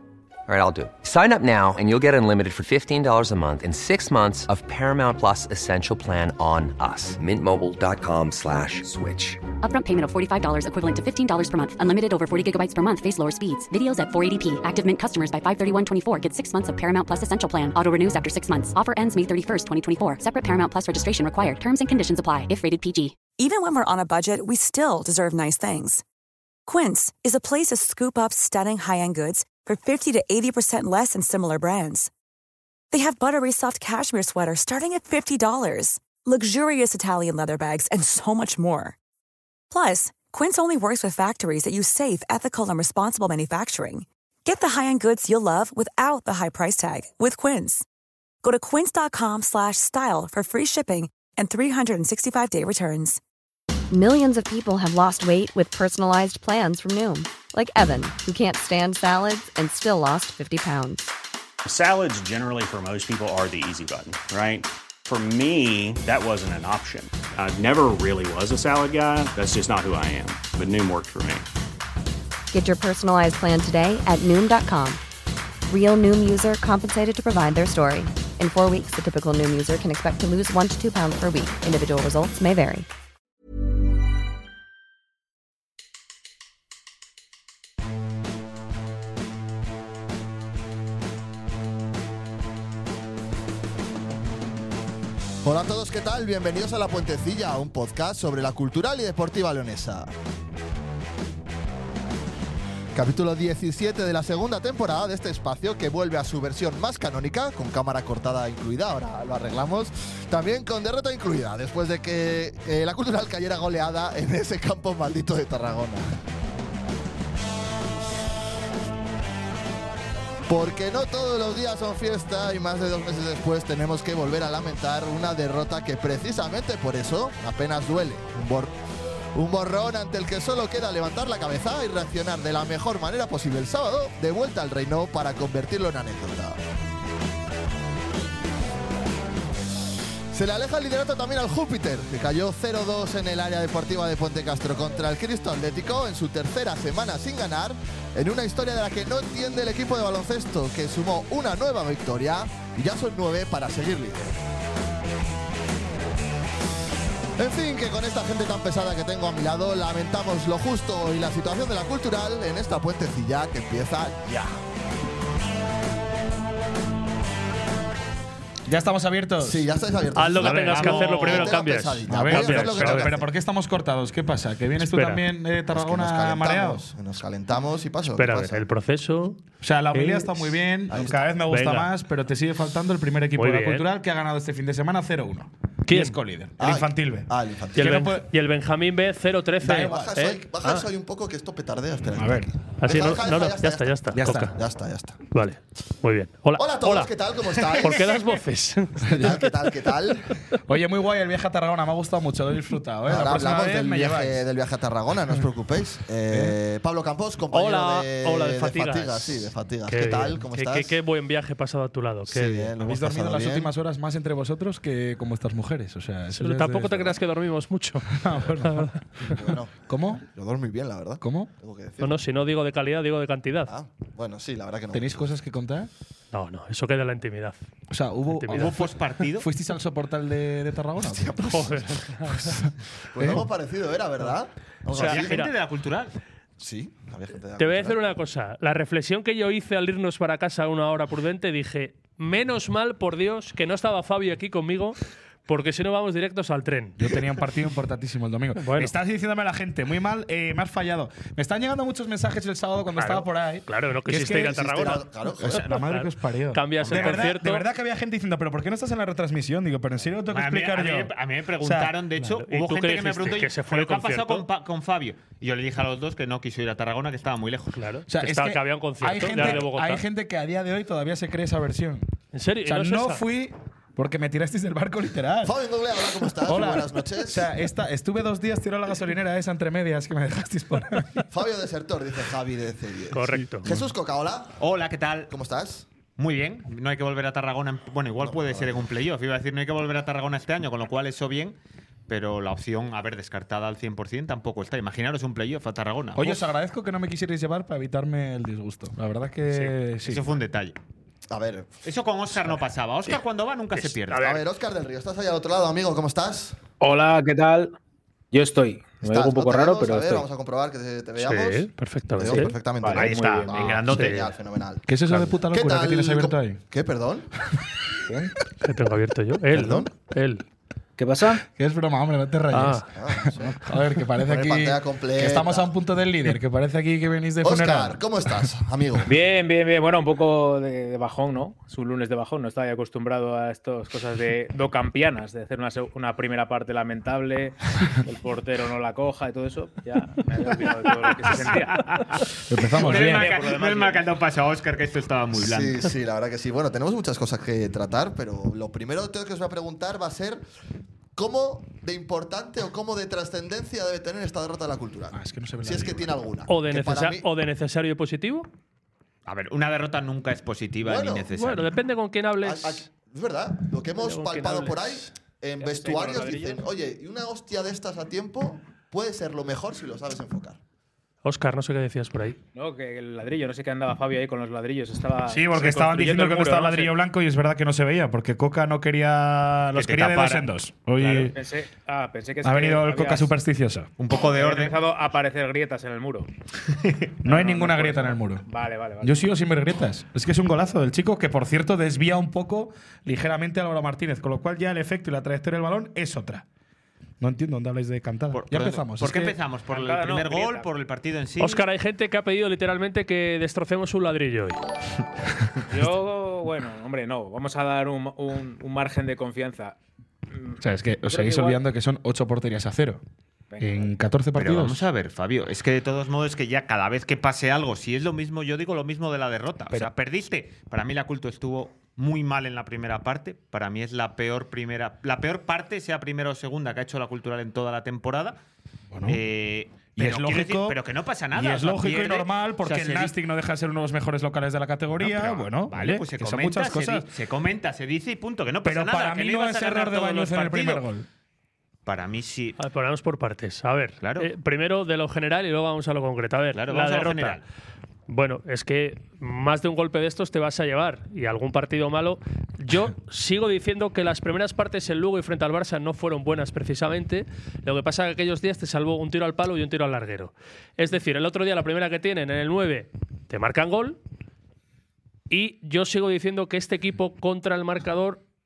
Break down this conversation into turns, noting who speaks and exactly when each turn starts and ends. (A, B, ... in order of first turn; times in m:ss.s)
0:00.5-0:09.4 A
0:09.6-0:23.2 B
0:23.4-0:26.0 C
0:26.7-0:32.1 C
0:32.9-0:39.0 C
0:39.7-0:47.8 C
0:48.4-0:53.2 C
0:53.9-1:01.1 D
1:01.6-1:11.5 E
1:12.5-1:15.0 D
1:15.7-1:22.9 D
1:35.4-1:40.1 F
1:42.9-1:56.1 F
2:00.5-2:08.7 F
2:09.3-2:16.6 F
2:20.3-2:34.3 F
2:37.4-2:44.5 F
2:48.7-2:49.7 G
2:49.4-2:53.3 F
2:50.2-2:53.1 H
2:50.4-2:51.6 I
2:52.1-2:56.9 G
2:54.8-2:55.2 H
2:55.7-2:58.7 F
2:58.1-2:59.4 H
2:59.6-3:08.3 G
2:59.9-3:00.5 H
3:00.9-3:01.2 F
3:01.5-3:01.9 H
3:03.4-3:03.8 H
3:05.9-3:06.2 H
3:06.6-3:08.0 F
3:07.8-3:10.8 H
3:09.6-3:10.1 G
3:09.8-3:15.2 F
3:12.2-3:12.5 G
3:12.8-3:14.6 H
3:14.2-3:14.5 G
3:15.3-3:17.1 H
3:16.6-3:18.2 F
3:17.8-3:19.5 H
3:19.0-3:20.3 F
3:20.7-3:24.5 G
3:23.1-3:31.0 F
3:26.3-3:26.6 G
3:27.5-3:32.7 H
3:32.3-3:33.7 F
3:32.8-3:37.2 G
3:36.3-3:39.0 H
3:38.1-3:39.2 G
3:39.2-3:42.2 F
3:39.9-3:40.2 G
3:41.2-3:41.5 G
3:42.0-3:43.7 H
3:43.7-3:45.2 F
3:44.9-3:45.9 G
3:46.3-3:47.6 H
3:47.9-3:53.5 G
3:48.3-3:48.8 H
3:48.5-3:49.5 I
3:51.0-3:51.9 F
3:51.5-3:52.6 H
3:53.1-3:55.4 F
3:54.9-3:55.5 H
3:55.0-3:56.2 I
3:56.6-3:58.0 F
3:57.6-4:07.1 H
4:07.0-4:14.6 G
4:08.6-4:08.9 H
4:13.0-4:17.7 H
4:14.1-4:15.7 F
4:15.4-4:21.9 G
4:16.8-4:17.3 I
4:20.3-4:27.8 I
4:22.2-4:24.4 H
4:27.8-4:30.0 H
4:28.1-4:32.1 G
4:29.4-4:29.6 I
4:32.3-4:33.2 H
4:32.6-4:35.6 G
4:35.4-4:37.5 F
4:36.1-4:41.2 G
4:41.3-4:44.6 F
4:43.1-4:43.7 H
4:44.6-4:45.3 I
4:45.3-4:45.9 F
4:46.2-4:51.6 I
4:48.2-4:48.9 F
4:52.1-4:56.4 I
4:56.1-5:00.3 G
4:59.5-5:00.8 I
5:01.3-5:01.8 F
5:01.8-5:04.4 I
5:03.8-5:04.4 H
5:04.1-5:06.6 F
5:06.8-5:07.8 J
5:08.3-5:10.2 J
5:09.0-5:14.9 F
5:11.2-5:12.5 H
5:12.2-5:14.3 J
5:12.9-5:14.3 I
5:14.9-5:16.6 G
5:15.4-5:17.3 F
5:18.6-5:20.4 H
5:19.5-5:19.9 F
5:21.0-5:21.4 J
5:21.5-5:28.5 G
5:22.5-5:22.9 H
5:23.0-5:25.7 F
5:27.4-5:29.1 F
5:29.1-5:42.2 J
5:42.5-5:43.3 G
5:42.8-5:44.1 J
5:42.8-5:45.9 I
5:45.4-5:50.4 F
5:51.2-5:57.3 F
5:55.1-5:56.1 G
5:56.5-5:58.5 H
5:59.2-6:01.7 I
6:00.8-6:01.3 F
6:01.3-6:02.9 H
6:02.4-6:10.6 F
6:03.9-6:04.8 H
6:05.6-6:06.6 J
6:11.2-6:12.4 H
6:12.6-6:16.9 J
6:15.3-6:21.4 G
6:19.8-6:20.5 I
6:21.0-6:23.3 J
6:22.4-6:23.9 G
6:24.0-6:24.8 I
6:24.2-6:26.3 J
6:26.7-6:27.1 I
6:27.2-6:29.2 J
6:27.2-6:28.4 G
6:29.0-6:36.4 G
6:37.2-6:39.4 G
6:38.3-6:41.6 I
6:39.7-6:40.7 J
6:41.4-6:44.6 H
6:45.7-6:49.8 J
6:50.3-6:51.6 J
6:50.6-6:53.0 G
6:53.5-6:53.9 J
6:53.6-6:54.8 G
6:54.4-7:08.4 I
7:08.9-7:09.2 G
7:09.1-7:13.1 I
7:10.0-7:10.8 G
7:11.3-7:17.1 G
7:15.0-7:20.8 I
7:18.6-7:21.1 G
7:21.9-7:22.6 I
7:22.6-7:27.4 H
7:24.0-7:24.3 I
7:26.5-7:27.4 I
7:28.1-7:44.0 H
7:45.3-7:48.2 H